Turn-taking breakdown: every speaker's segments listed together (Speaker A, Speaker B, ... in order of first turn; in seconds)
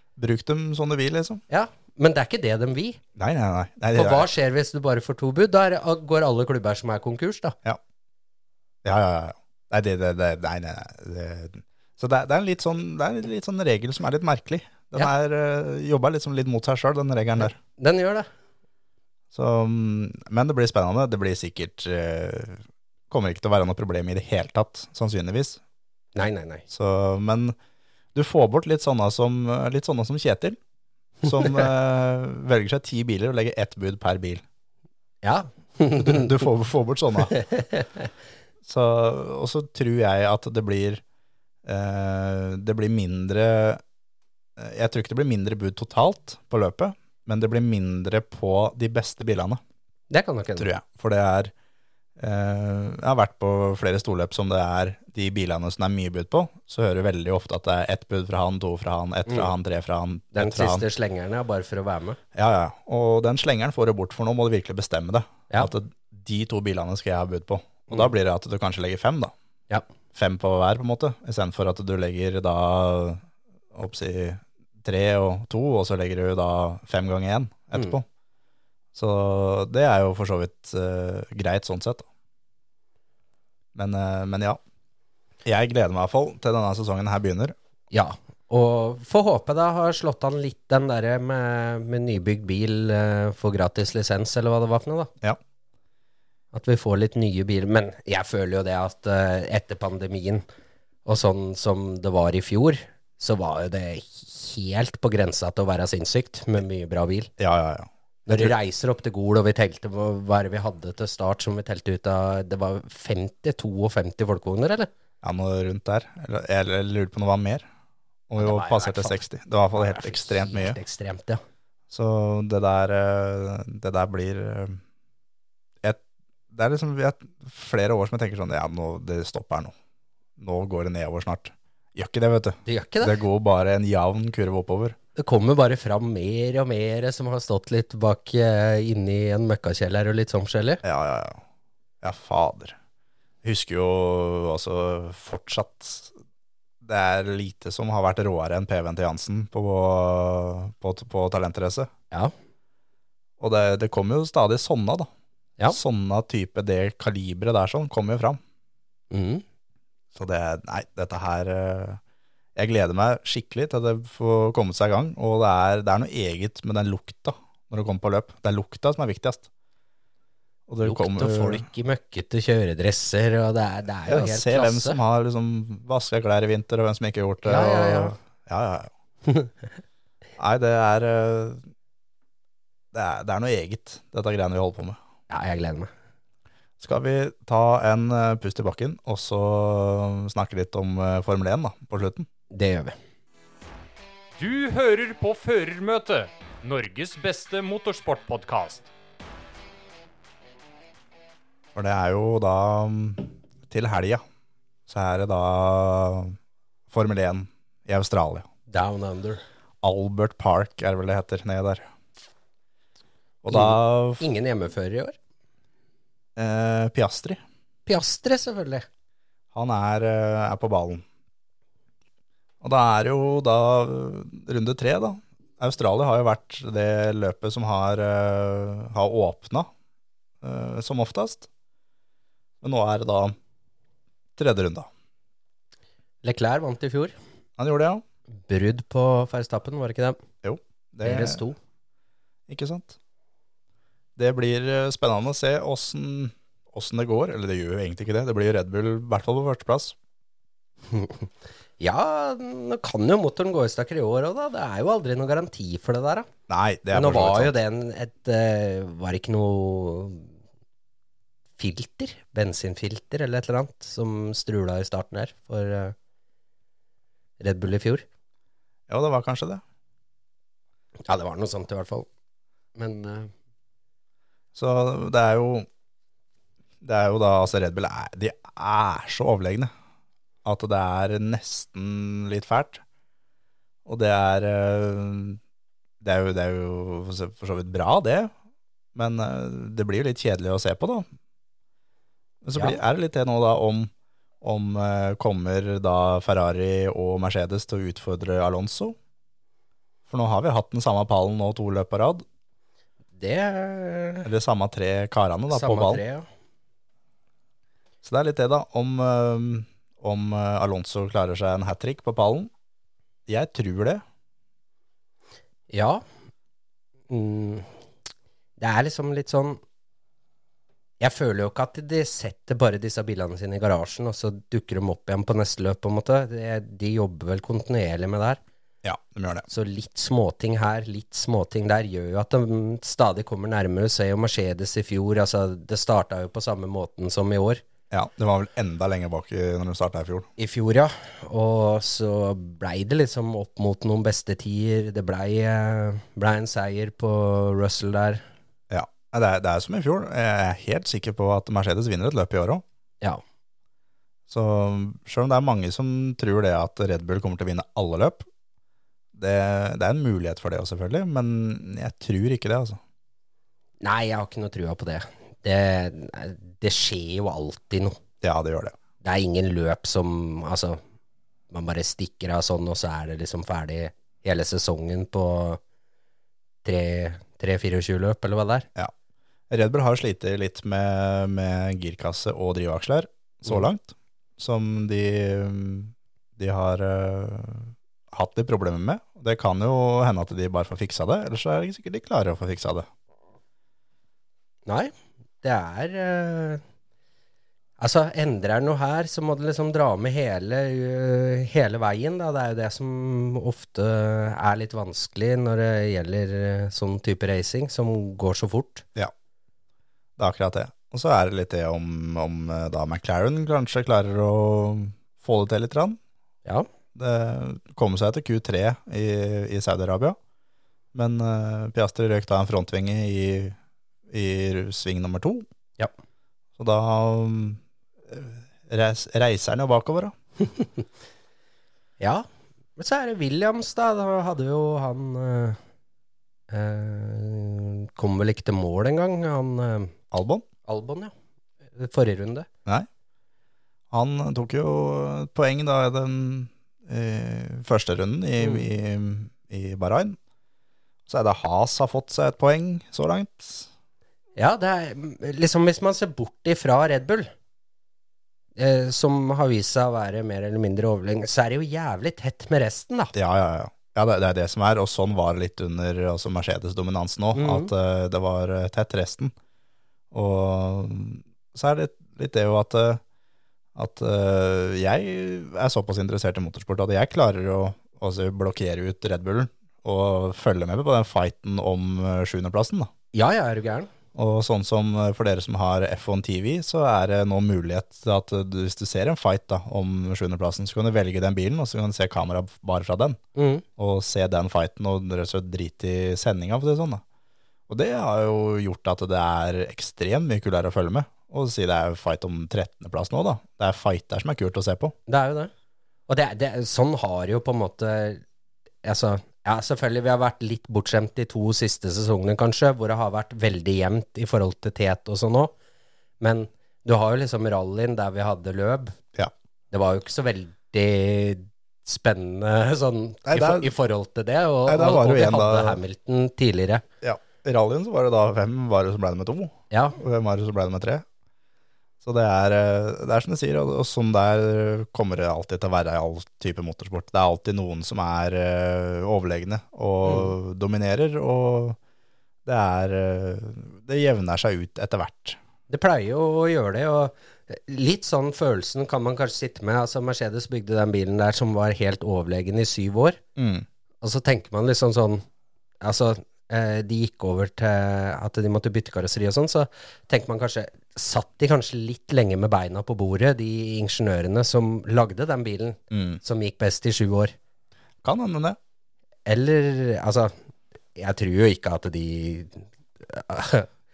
Speaker A: 0.2-1.4, 3.1-4.3, 8.8-17.6, 19.3-25.6, 26.7-27.6, 28.1-30.6, 31.2-34.4, 36.0-37.3, 38.6-41.0, 41.6-43.8, 44.6-49.6, 50.6-51.5, 52.2-60.8, 62.3-69.3, 70.1-78.0, 78.9-82.0, 83.7-84.6, 85.4-87.5, 107.4-108.5, 115.2-117.7, 118.3-120.8, 121.9-124.8, 125.8-129.7, 130.4-134.9, 140.8-141.4, 142.0-142.8, 143.4-146.1, 146.8-151.9, 153.4-155.1, 155.7-158.4, 160.1-162.0, 162.6-169.5, 170.7-171.7, 174.1-178.9, 180.4-181.7, 182.9-185.0, 186.8-192.2, 201.7-204.2, 204.9-206.3, 206.9-208.5, 209.8-211.8, 213.4-214.2, 216.3-217.4, 219.5-221.0, 222.6-229.7, 230.4-231.5, 232.6-233.3, 234.4-234.9, 237.6-238.0, 240.4-241.4, 242.5-242.9, 244.2-249.9, 256.5-257.5, 268.9-269.6, 274.5-275.7, 276.8-279.7, 280.4-282.8, 283.9-285.4, 286.0-288.3, 288.9-291.1, 292.4-293.9, 294.4-298.9, 300.1-302.2, 304.2-306.0, 308.0-312.5, 313.3-314.0, 328.8-329.4, 337.9-340.3, 348.7-352.6, 354.3-358.2, 359.1-362.8, 368.2-368.7, 379.5-392.9, 410.2-416.0, 416.9-420.2, 420.9-423.6, 424.1-425.5, 426.6-430.1, 440.1-440.4, 443.9-450.2, 451.1-453.7, 463.1-469.3, 470.1-473.0, 473.7-482.9, 484.1-493.2, 493.8-497.0, 497.7-504.9, 523.2-523.7, 524.7-525.8, 527.0-531.0, 532.0-541.8, 542.4-545.4, 553.4-553.6, 565.9-566.2, 568.0-568.6
Speaker B: 1.5-3.0, 3.9-7.5, 17.8-18.3, 26.1-26.6, 31.4-31.7, 35.2-36.4, 37.3-38.1, 50.1-50.7, 59.3-59.5, 60.3-62.2, 87.9-95.1, 96.5-100.4, 101.0-107.3, 108.2-114.9, 118.4-119.2, 119.7-121.4, 132.7-133.2, 135.2-140.8, 159.1-159.4, 170.8-175.0, 177.4-178.1, 179.3-179.5, 185.3-185.9, 192.5-192.9, 208.7-209.4, 213.5-215.2, 217.8-218.8, 236.2-237.1, 238.5-240.2, 241.0-241.6, 250.9-256.3, 256.9-260.3, 261.6-265.9, 267.4-268.1, 271.1-272.1, 272.8-273.3, 292.5-292.8, 303.2-304.3, 305.5-306.2, 315.7-316.0, 317.1-317.7, 318.6-319.6, 321.0-328.4, 329.5-337.6, 340.4-348.2, 363.8-368.0, 369.0-370.8, 371.5-375.6, 376.6-378.7, 394.6-396.6, 397.8-408.8, 432.0-435.6, 436.5-439.9, 440.6-441.1, 441.7-442.5, 448.4-448.6, 454.4-457.3, 458.6-463.1, 467.3-467.7, 483.1-483.9, 493.3-493.6, 505.1-505.5, 506.1-508.2, 508.8-515.5, 516.2-519.0, 519.7-526.8, 529.7-530.0, 540.0-540.3, 545.7-553.2, 554.0-555.2, 555.8-567.3, 569.2-570.3, 571.0-573.7
Speaker C: 194.4-198.9